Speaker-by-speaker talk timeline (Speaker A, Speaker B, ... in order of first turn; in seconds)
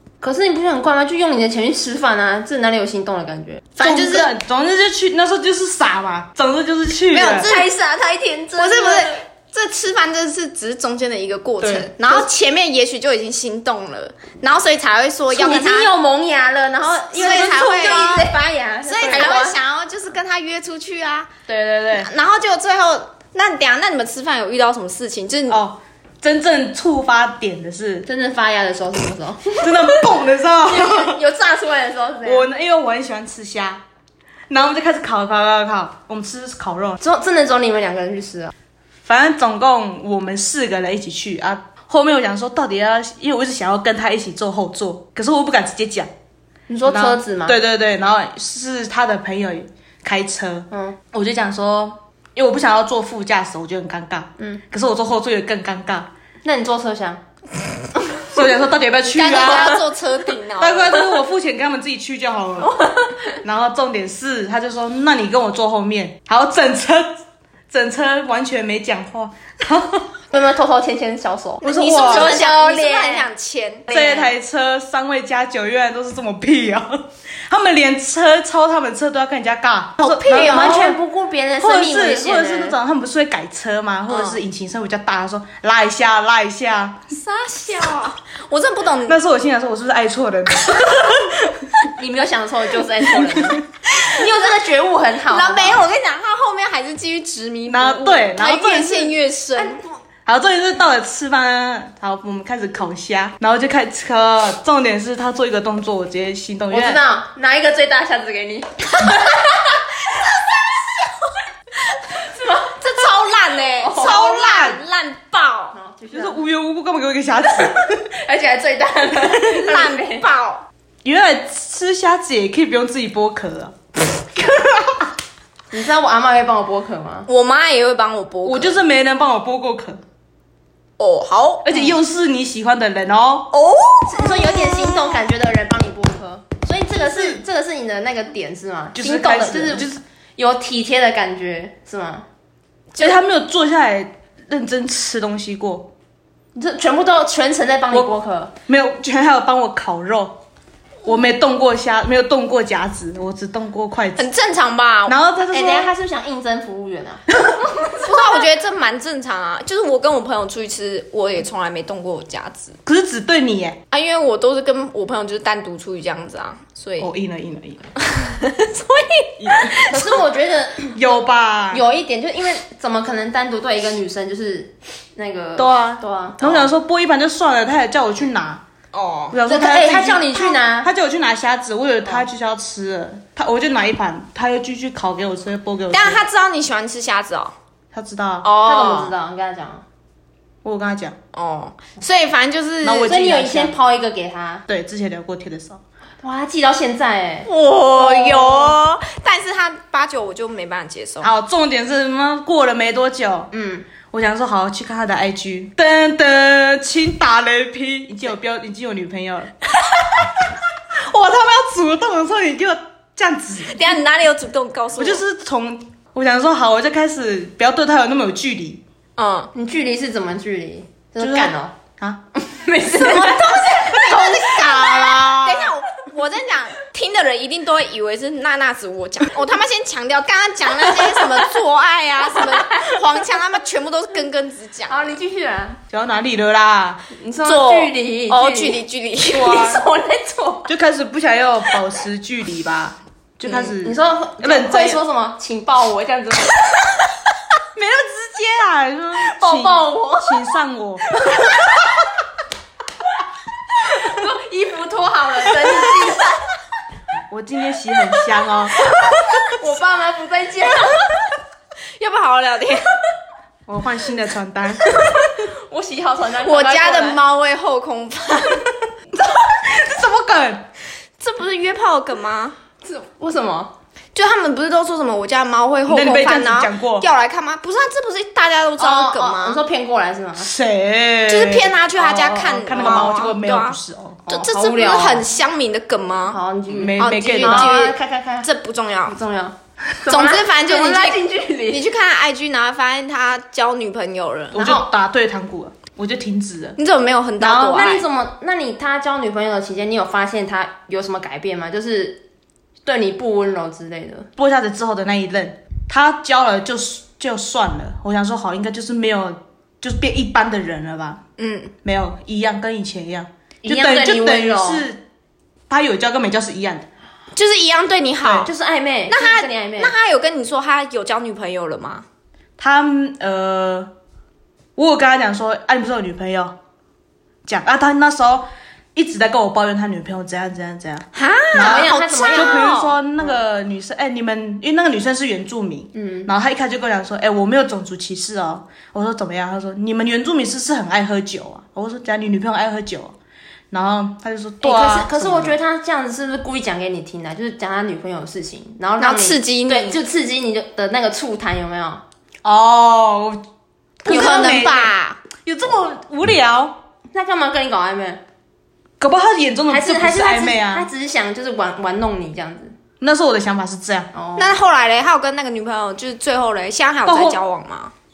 Speaker A: 0.2-3.7, 7.2-9.2, 15.3-19.6, 28.1-30.1, 30.7-32.5, 37.0-38.5, 46.7-47.6, 50.7-51.0, 56.4-57.2, 70.3-73.3, 80.2-82.8, 91.9-95.8, 99.6-99.9, 106.7-110.3, 112.3-112.7, 113.8-114.3, 115.7-116.4, 117.8-120.3, 125.7-127.3, 134.0-142.3, 146.6-148.5, 155.5-158.2, 169.9-171.0, 171.7-176.7, 179.5-180.9, 188.6-189.8, 193.0-194.7, 196.2-198.8, 203.5-203.9, 219.5-221.7, 222.4-224.6, 232.7-233.0, 234.9-235.8, 237.1-240.7, 243.5-246.6, 249.2-250.5, 253.9-256.4, 258.9-261.1, 265.1-267.2, 272.8-273.8, 278.8-280.5, 282.8-283.1, 284.3-285.3, 286.3-288.5, 289.1-291.8, 294.6-294.8, 297.5-302.2, 302.9-304.3, 313.6-314.9, 318.4-319.9, 331.6-332.7, 335.9-336.3, 344.6-352.0, 354.1-354.6, 357.1-358.2, 359.7-362.7, 364.1-364.6
Speaker B: 3.8-4.3, 7.1-7.7, 8.6-15.9, 17.1-18.3, 18.9-21.3, 21.9-25.6, 59.1-61.2, 71.6-74.0, 80.0-80.9, 84.1-84.4, 87.1-89.2, 95.3-99.8, 112.4-115.7, 119.4-120.7, 127.3-128.8, 131.0-131.9, 133.5-135.0, 154.2-155.2, 158.0-162.8, 163.9-167.1, 168.0-170.2, 178.9-179.4, 185.9-187.5, 188.4-189.1, 191.3-193.1, 197.5-201.3, 213.6-215.2, 219.2-219.5, 223.2-235.2, 237.4-239.8, 262.0-263.0, 266.4-268.7, 271.2-272.6, 274.1-279.6, 281.3-286.4, 286.9-289.2, 290.1-294.7, 296.8-298.1, 311.4-311.7, 317.4-318.5, 319.1-322.1, 331.1-332.9, 349.0-350.0, 354.1-355.2, 364.4-367.9
Speaker C: 3.8-7.5, 11.6-12.2, 21.5-22.1, 25.5-28.1, 29.6-31.2, 32.2-33.8, 34.5-37.0, 39.0-46.1, 46.9-56.1, 58.2-59.9, 60.6-62.9, 63.4-67.1, 67.7-70.1, 71.6-72.4, 73.9-81.0, 81.6-87.0, 89.1-91.9, 93.1-93.6, 97.7-99.2, 100.3-107.0, 114.0-114.8, 116.1-118.1, 121.0-123.8, 124.4-125.0, 128.4-130.0, 131.6-133.5, 137.0-137.4, 138.9-140.0, 143.0-145.9, 148.7-150.4, 151.1-154.3, 155.1-155.9, 162.9-163.8, 167.0-167.9, 169.4-169.8, 170.9-171.8, 175.6-178.6, 179.3-186.2, 187.9-188.5, 190.6-191.2, 192.8-193.8, 194.7-195.8, 201.2-203.5, 204.1-214.0, 215.0-218.8, 221.2-222.2, 222.9-225.8, 235.9-237.0, 239.4-239.8, 240.7-245.0, 247.7-251.1, 257.3-258.8, 263.7-264.9, 269.2-270.7, 275.9-277.1, 280.4-284.2, 286.7-287.8, 294.5-296.8, 297.4-297.9, 304.4-311.2, 311.8-315.0, 315.7-316.9, 322.6-323.9, 324.8-326.6, 327.4-343.1, 343.7-345.6, 352.4-353.4, 354.0-354.9, 355.4-356.8, 359.0-360.9, 363.0-364.1, 367.1-367.4